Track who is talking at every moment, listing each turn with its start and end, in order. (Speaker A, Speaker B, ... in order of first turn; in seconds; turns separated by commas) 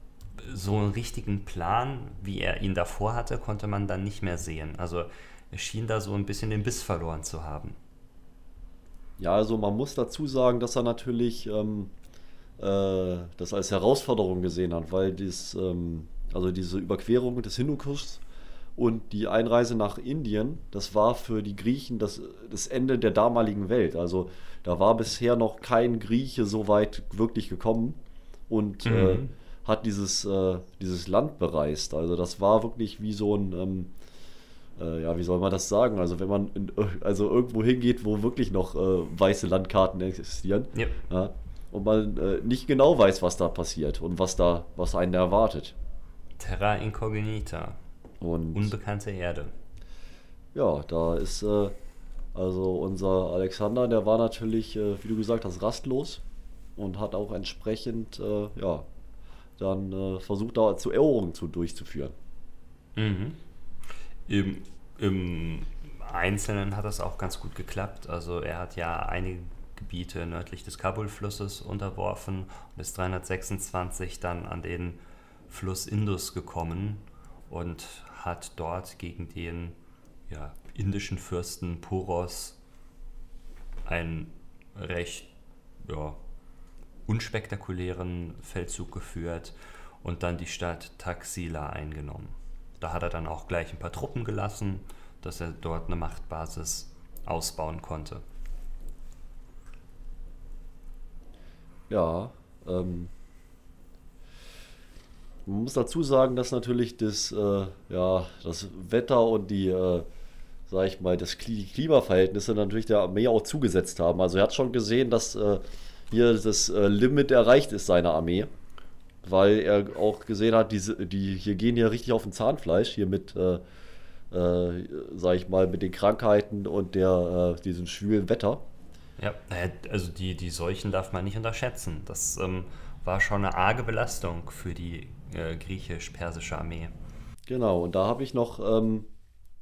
Speaker A: 0.4-7.8, Speaker B: 9.2-11.9, Speaker B: 12.6-18.2, Speaker B: 18.8-33.9, Speaker A: 28.8-29.3, Speaker B: 34.8-45.7, Speaker A: 46.4-47.8, Speaker B: 48.2-48.7, Speaker A: 48.5-49.5, Speaker B: 50.5-51.7, Speaker B: 52.3-56.2, Speaker B: 56.8-58.9, Speaker B: 59.6-62.1, Speaker A: 63.0-63.4, Speaker A: 64.3-79.8, Speaker A: 80.3-82.6, Speaker A: 83.8-85.3, Speaker A: 85.8-86.2, Speaker A: 87.1-98.2, Speaker B: 101.9-103.1, Speaker B: 105.5-110.0, Speaker B: 110.7-118.5, Speaker B: 119.2-123.6, Speaker B: 124.3-128.6, Speaker A: 129.2-136.9, Speaker B: 137.5-139.1